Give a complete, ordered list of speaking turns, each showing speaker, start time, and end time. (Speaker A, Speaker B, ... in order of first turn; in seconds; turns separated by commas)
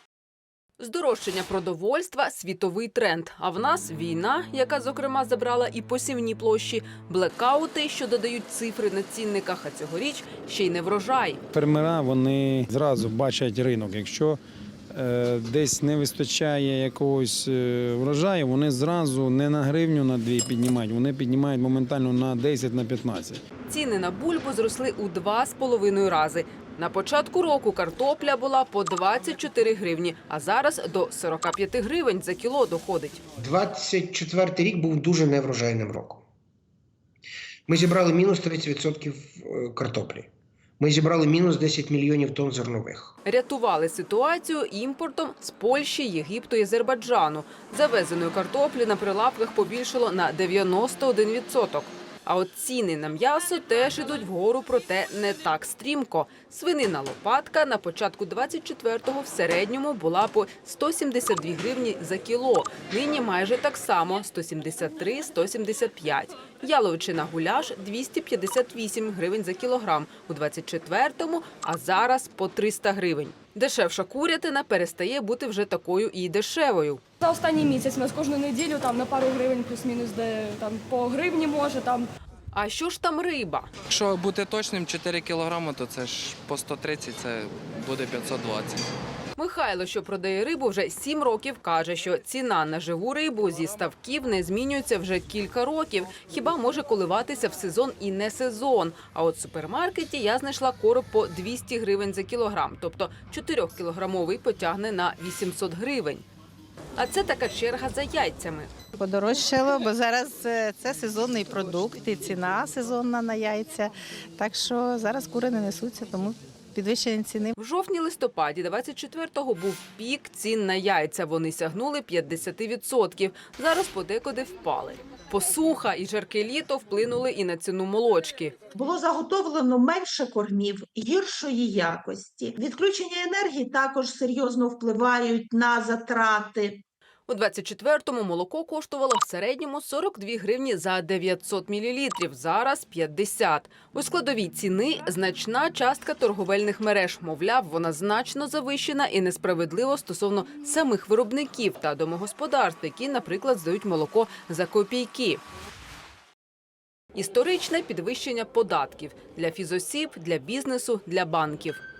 Speaker A: 0.8-11.4, Speaker B: 11.5-14.4, Speaker B: 14.9-23.4, Speaker A: 23.7-33.2, Speaker C: 33.4-36.2, Speaker C: 37.7-43.1, Speaker A: 43.3-77.0, Speaker D: 77.2-82.1, Speaker A: 82.5-83.7, Speaker E: 83.9-88.8, Speaker A: 89.4-106.2, Speaker A: 107.0-108.7, Speaker F: 109.0-117.5, Speaker A: 117.6-128.5, Speaker G: 128.8-136.8, Speaker A: 137.3-155.4, Speaker A: 157.2-161.8